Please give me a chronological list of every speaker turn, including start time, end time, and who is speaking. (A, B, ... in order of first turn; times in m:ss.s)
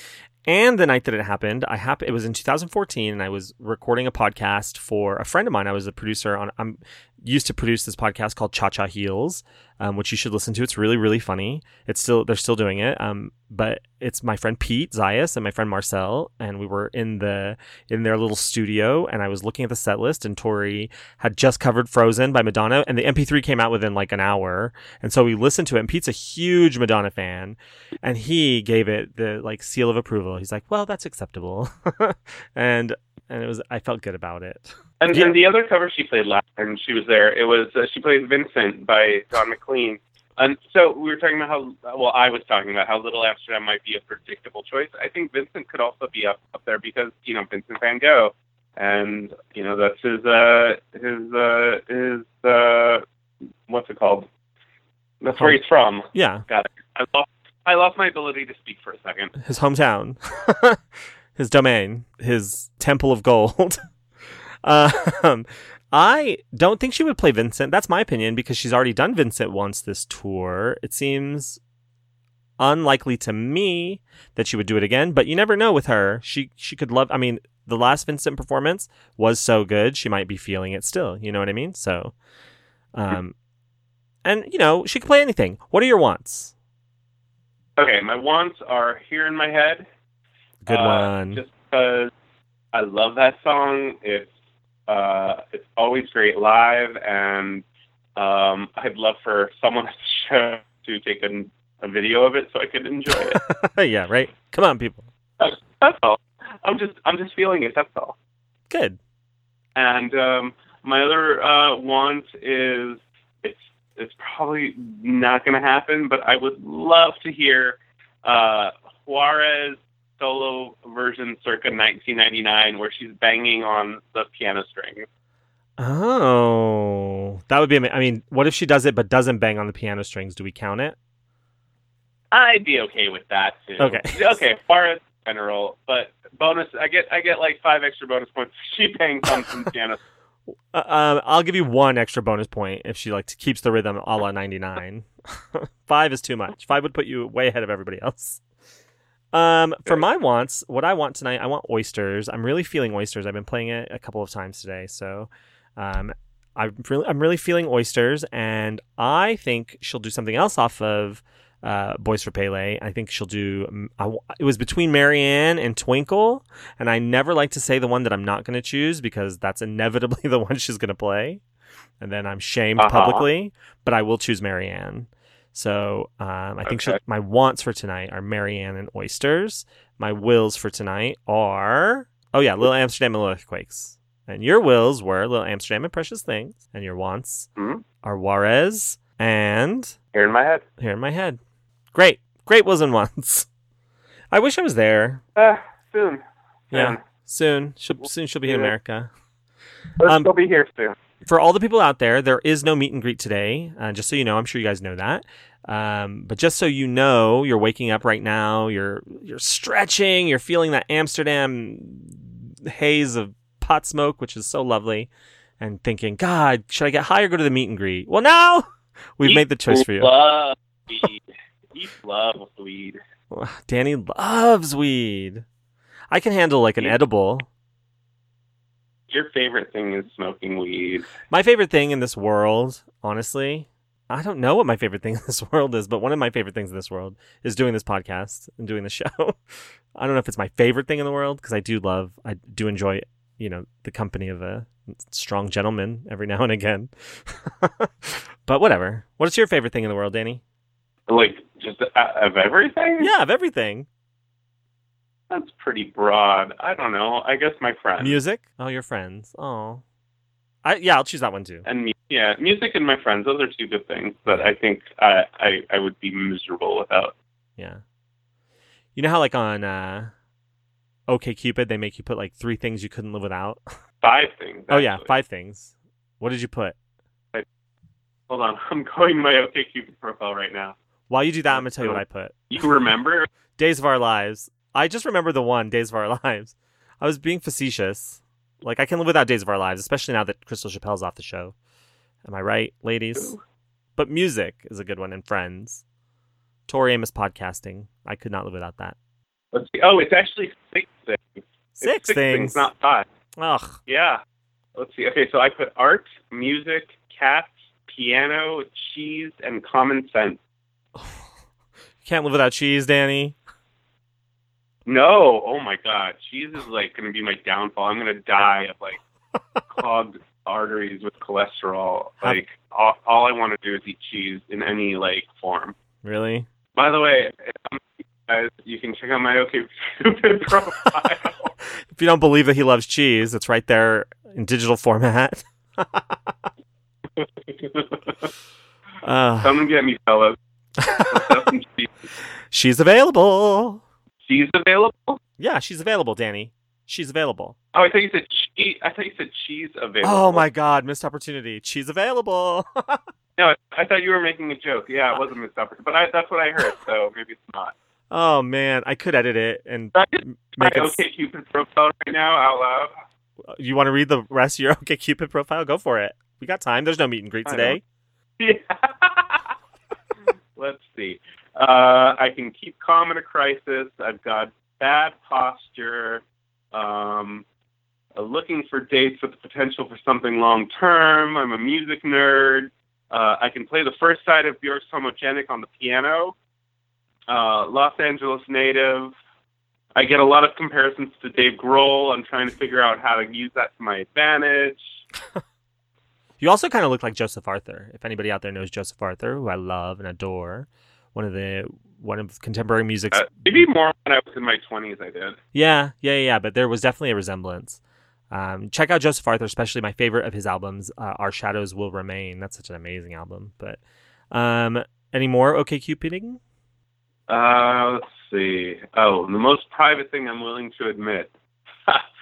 0:00.4-0:35.4 A
0:35.0-0:53.0 B
0:53.7-0:54.3 B
0:55.2-0:59.3 B
0:56.1-0:56.4 A
0:59.4-1:00.8 A
1:01.4-1:03.8 A
1:04.6-1:11.6 A
1:12.6-1:22.1 A
1:22.9-1:23.3 A
1:24.2-1:26.5 A
1:27.8-1:29.9 B
1:30.6-1:31.4 A
1:30.7-1:32.1 B
1:32.7-1:34.3 B
1:34.9-1:37.6 B
1:38.2-1:43.4 B
1:43.3-1:45.0 A
1:45.4-1:48.2 B
1:48.7-1:49.0 A
1:49.8-2:05.0 B
2:05.8-2:11.0 A
2:12.3-2:20.0 B
2:13.8-2:14.4 A
2:20.7-2:28.4 A
2:29.3-2:51.4 A
2:52.0-3:07.5 A
2:52.8-2:53.2 B
2:56.6-2:57.0 B
3:07.6-3:07.8 B
3:08.0-3:10.0 A
3:10.1-3:10.6 B
3:10.8-3:11.4 A
3:11.9-3:13.5 A
3:14.3-3:15.2 A
3:15.4-3:17.0 B
3:16.7-3:19.1 A
3:18.5-3:18.7 B
3:20.0-3:20.9 B
3:20.0-3:20.3 A
3:21.2-3:40.1 A
3:39.2-3:41.2 B
3:41.7-3:43.0 B
3:43.3-3:45.4 A
3:46.1-3:47.5 A
3:49.1-3:51.1 B
3:51.3-3:59.4 A
3:59.9-4:10.4 A
4:11.1-4:13.1 B
4:13.0-4:13.9 A
4:15.3-4:18.2 B
4:18.0-4:19.8 A
4:20.6-4:21.6 A
4:21.6-4:27.1 B
4:27.6-4:27.8 A
4:29.0-4:30.1 A
4:31.1-4:33.6 A
4:34.0-4:35.1 B
4:34.7-4:36.8 A
4:38.3-4:40.8 B
4:41.1-4:42.5 A
4:41.5-4:43.3 B
4:43.6-4:51.5 A
4:52.2-4:53.4 A
4:54.0-4:55.8 A
4:56.7-4:59.0 A
4:59.5-5:03.0 B
5:01.8-5:02.7 A
5:03.4-5:03.8 A
5:03.9-5:04.2 B
5:04.8-5:10.4 B
5:12.0-5:13.4 A
5:14.9-5:19.0 B
5:19.7-5:25.8 B
5:26.0-5:26.5 A
5:26.8-5:31.5 B
5:31.8-5:36.4 A
5:37.2-5:38.3 B
5:39.0-5:39.5 A
5:39.4-5:40.4 B
5:40.8-5:41.2 A
5:41.1-5:41.9 B
5:42.5-5:43.8 A
5:44.3-5:45.2 B
5:45.4-5:47.6 A
5:47.7-5:50.4 B
5:50.0-5:53.0 A
5:53.4-5:57.7 B
5:58.1-6:01.0 A
5:59.9-6:02.9 B
6:03.5-6:07.8 A
6:07.4-6:07.8 B
6:08.4-6:09.5 B
6:10.6-6:17.4 B
6:18.2-6:26.4 B
6:27.3-6:29.1 B
6:29.9-6:35.0 B
6:36.4-6:43.6 A
6:43.1-6:45.4 B
6:45.5-6:53.8 A
6:54.3-6:56.4 A
6:57.3-7:01.3 B